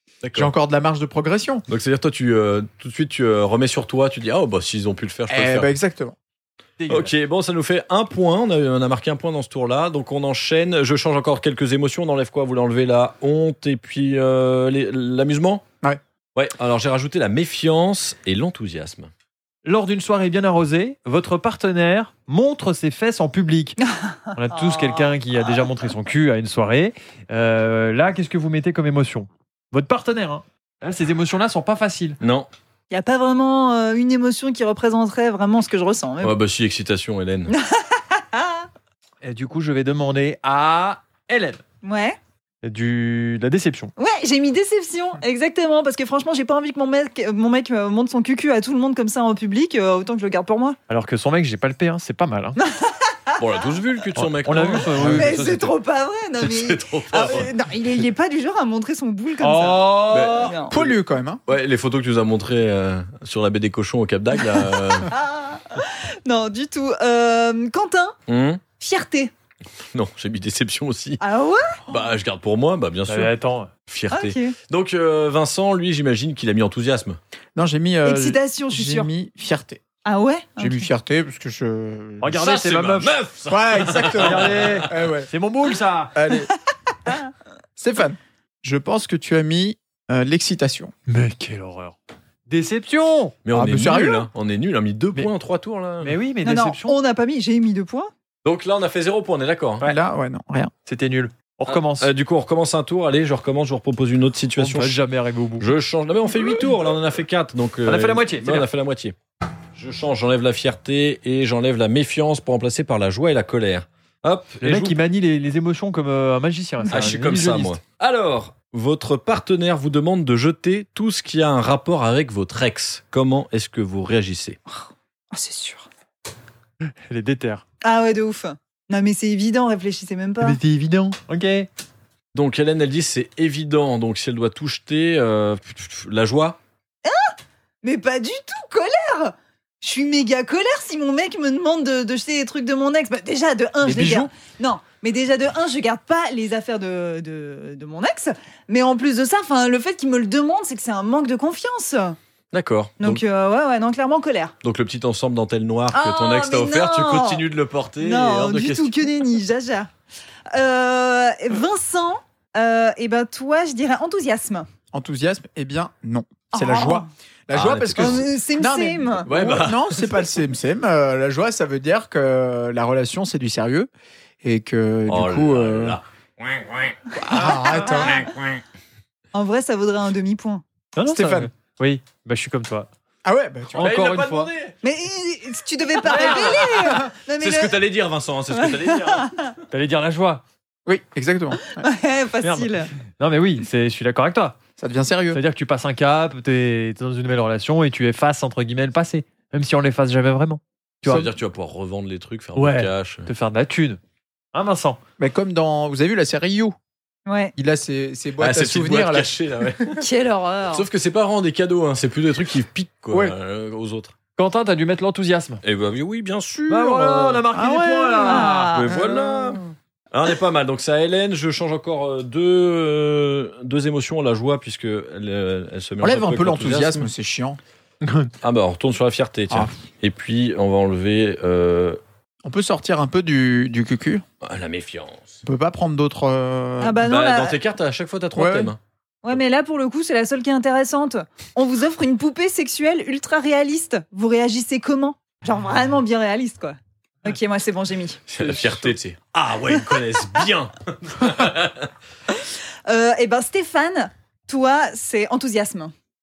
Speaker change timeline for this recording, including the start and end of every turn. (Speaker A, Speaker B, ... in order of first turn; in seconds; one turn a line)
Speaker A: 0.2-0.5
Speaker B: 0.3-1.6
Speaker A: 1.7-5.7
Speaker B: 5.3-6.2
Speaker C: 6.8-7.1
Speaker A: 6.9-15.6
Speaker A: 16.3-19.1
Speaker C: 19.6-23.8
Speaker D: 23.8-25.1
Speaker C: 24.3-32.2
Speaker A: 32.2-32.5
Speaker D: 32.9-36.4
Speaker A: 36.2-37.5
Speaker D: 37.5-38.7
Speaker C: 39.2-41.6
Speaker D: 41.8-42.2
Speaker C: 42.6-43.9
Speaker D: 44.0-50.8
Speaker C: 50.9-52.6
Speaker D: 52.6-53.4
Speaker A: 53.4-55.3
Speaker C: 54.2-55.7
Speaker D: 55.1-60.7
Speaker A: 56.4-57.5
Speaker C: 59.4-60.5
Speaker A: 60.1-60.9
Speaker B: 60.7-61.4
Speaker A: 61.5-65.1
Speaker D: 65.0-68.2
Speaker A: 68.3-68.6
Speaker D: 68.8-69.3
Speaker A: 69.9-71.2
Speaker D: 71.2-71.8
Speaker A: 71.9-73.3
Speaker C: 73.1-73.7
Speaker A: 73.9-77.2
Speaker D: 74.1-74.5
Speaker B: 77.5-79.8
Speaker D: 78.0-79.1
Speaker D: 80.0-80.9
Speaker B: 80.6-82.4
Speaker C: 82.2-83.1
Speaker A: 82.3-84.9
Speaker B: 83.5-85.3
Speaker C: 84.2-86.1
Speaker B: 86.1-86.5
Speaker B: 87.8-90.9
Speaker C: 91.1-92.0
Speaker C: 92.5-93.3
Speaker A: 93.4-96.2
Speaker B: 93.5-94.3
Speaker C: 96.0-97.0
Speaker D: 96.4-98.1
Speaker A: 98.4-99.8
Speaker B: 99.8-100.7
Speaker C: 100.8-102.1
Speaker A: 101.7-105.0
Speaker C: 104.6-105.7
Speaker A: 105.6-109.1
Speaker C: 107.8-108.7
Speaker A: 109.7-115.0
Speaker C: 114.6-117.8
Speaker A: 116.9-124.6
Speaker D: 124.7-125.9
Speaker C: 126.8-127.6
Speaker D: 127.8-130.6
Speaker C: 130.4-131.7
Speaker A: 132.3-136.6
Speaker D: 137.0-152.2
Speaker B: 143.8-144.3
Speaker A: 152.5-153.2
Speaker D: 153.0-154.5
Speaker A: 154.6-159.1
Speaker D: 155.9-157.4
Speaker D: 158.0-159.9
Speaker D: 160.5-164.7
Speaker B: 164.9-173.9
Speaker D: 166.5-167.1
Speaker A: 167.5-168.2
Speaker D: 168.0-169.3
Speaker A: 169.2-170.2
Speaker B: 174.4-176.0
Speaker A: 175.1-178.6
Speaker B: 177.2-178.2
Speaker D: 179.3-180.6
Speaker C: 180.9-182.9
Speaker B: 181.1-181.5
Speaker B: 183.2-183.9
Speaker C: 183.7-184.5
Speaker A: 183.7-184.7
Speaker D: 184.8-187.8
Speaker C: 186.1-186.6
Speaker A: 186.1-189.3
Speaker D: 188.5-189.5
Speaker C: 189.7-190.4
Speaker B: 190.8-191.8
Speaker D: 191.7-192.9
Speaker C: 192.4-194.6
Speaker B: 194.8-195.4
Speaker C: 195.3-201.3
Speaker A: 201.0-203.3
Speaker C: 202.6-204.0
Speaker C: 204.5-205.0
Speaker B: 205.2-206.8
Speaker D: 207.2-207.5
Speaker B: 207.6-209.3
Speaker A: 208.4-210.0
Speaker D: 209.9-210.8
Speaker A: 210.7-214.1
Speaker C: 214.4-215.6
Speaker A: 215.6-217.5
Speaker C: 216.7-218.8
Speaker B: 217.5-219.2
Speaker A: 218.2-227.1
Speaker D: 218.2-219.2
Speaker B: 226.0-227.6
Speaker C: 228.0-228.3
Speaker A: 228.4-232.0
Speaker B: 232.4-234.2
Speaker A: 234.4-235.4
Speaker B: 235.4-237.0
Speaker D: 236.8-237.6
Speaker A: 237.1-238.8
Speaker B: 238.3-238.7
Speaker D: 239.2-248.2
Speaker A: 248.3-251.9
Speaker C: 248.4-248.9
Speaker D: 252.8-255.9